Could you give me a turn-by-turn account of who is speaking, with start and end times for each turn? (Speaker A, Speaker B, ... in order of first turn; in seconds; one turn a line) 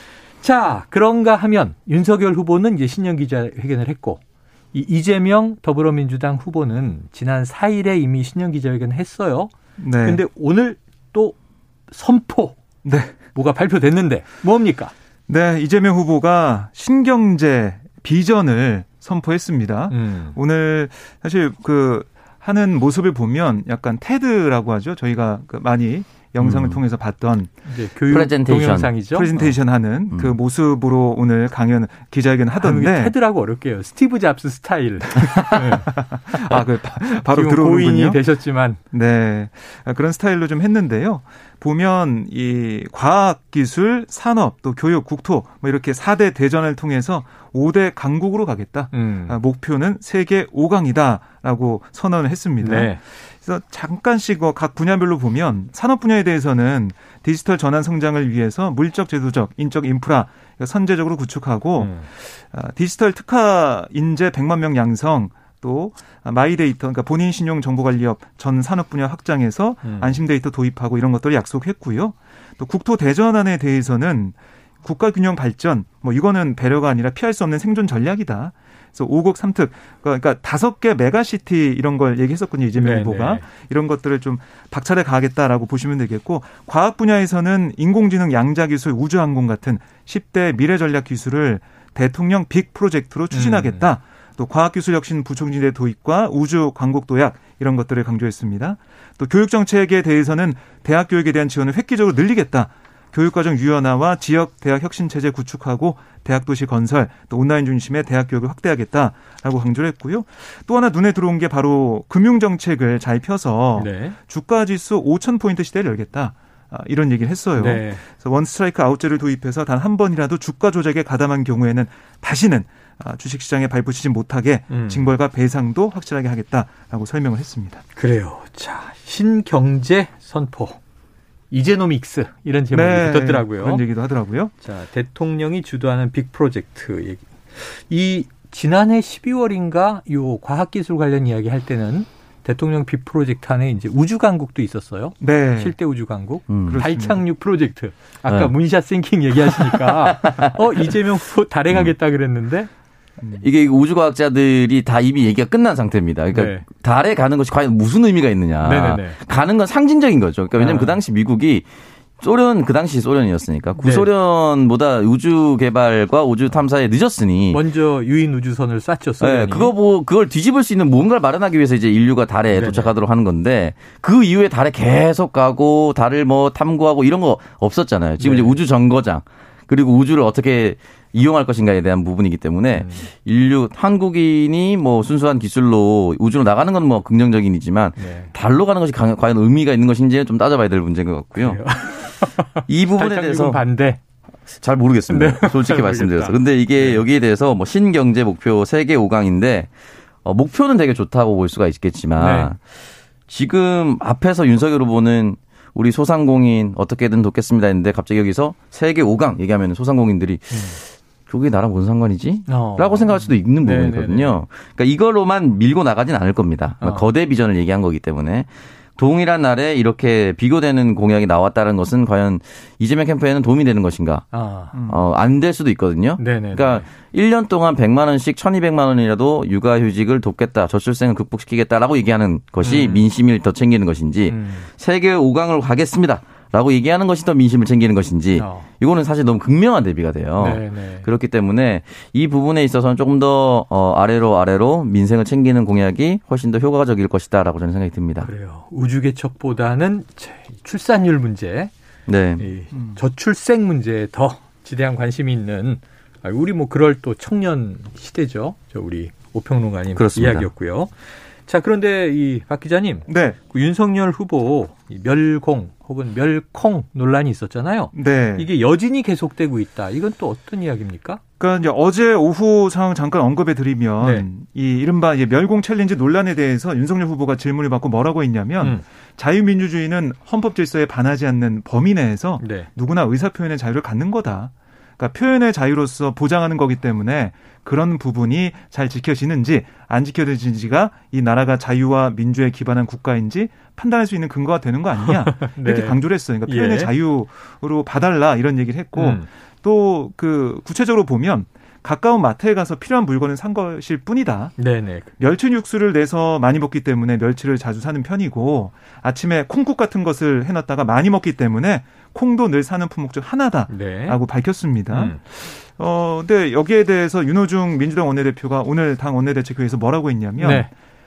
Speaker A: 0.4-4.2
Speaker A: 4.7-11.3
Speaker B: 9.8-10.2
Speaker A: 11.9-12.6
Speaker B: 12.8-13.1
Speaker A: 13.3-14.9
Speaker B: 15.3-27.5
Speaker A: 19.9-20.4
Speaker C: 26.4-26.8
Speaker A: 27.6-29.3
Speaker C: 28.1-29.5
Speaker B: 29.1-33.1
Speaker A: 32.6-38.8
Speaker B: 35.4-38.2
Speaker B: 38.9-127.8
Speaker A: 48.9-49.4
Speaker A: 52.6-53.0
Speaker A: 61.8-62.1
Speaker A: 69.8-70.2
Speaker A: 82.7-83.4
Speaker A: 93.3-93.9
Speaker A: 113.8-114.2
Speaker A: 117.6-118.0
Speaker A: 124.7-125.1
Speaker A: 128.0-130.8
Speaker A: 131.5-133.8
Speaker B: 132.7-134.5
Speaker A: 134.6-152.7
Speaker B: 145.2-145.7
Speaker C: 146.5-146.8
Speaker B: 146.7-147.2
Speaker C: 148.3-148.5
Speaker C: 149.7-150.6
Speaker B: 153.2-153.4
Speaker C: 153.4-161.7
Speaker A: 156.3-156.6
Speaker A: 158.6-159.2
Speaker A: 160.6-161.0
Speaker C: 162.2-167.6
Speaker A: 163.8-164.1
Speaker A: 167.5-169.7
Speaker C: 169.2-191.6
Speaker A: 172.5-172.9
Speaker A: 178.2-178.5
Speaker A: 182.7-183.1
Speaker A: 188.0-188.3
Speaker A: 191.4-194.0
Speaker C: 192.7-193.6
Speaker C: 194.6-199.7
Speaker A: 195.1-197.0
Speaker C: 200.2-224.2
Speaker A: 202.2-202.5
Speaker A: 210.5-210.8
Speaker A: 212.5-214.4
Speaker A: 216.8-217.1
Speaker A: 224.3-224.8
Speaker C: 224.8-248.3
Speaker A: 226.2-226.9
Speaker A: 232.6-233.0
Speaker A: 234.3-234.7
Speaker A: 238.3-238.7
Speaker A: 240.4-241.1
Speaker A: 248.2-251.7
Speaker C: 252.1-252.4
Speaker A: 252.4-260.9
Speaker B: 252.7-253.0
Speaker C: 259.9-260.5
Speaker A: 261.4-271.2
Speaker B: 263.1-263.4
Speaker B: 267.9-268.5
Speaker B: 271.4-304.6
Speaker A: 274.0-274.3
Speaker A: 282.4-282.7
Speaker A: 295.0-296.9
Speaker A: 299.0-299.3
Speaker A: 304.6-305.1
Speaker B: 305.2-320.7
Speaker A: 313.7-314.2
Speaker A: 314.9-315.2
Speaker A: 320.4-320.7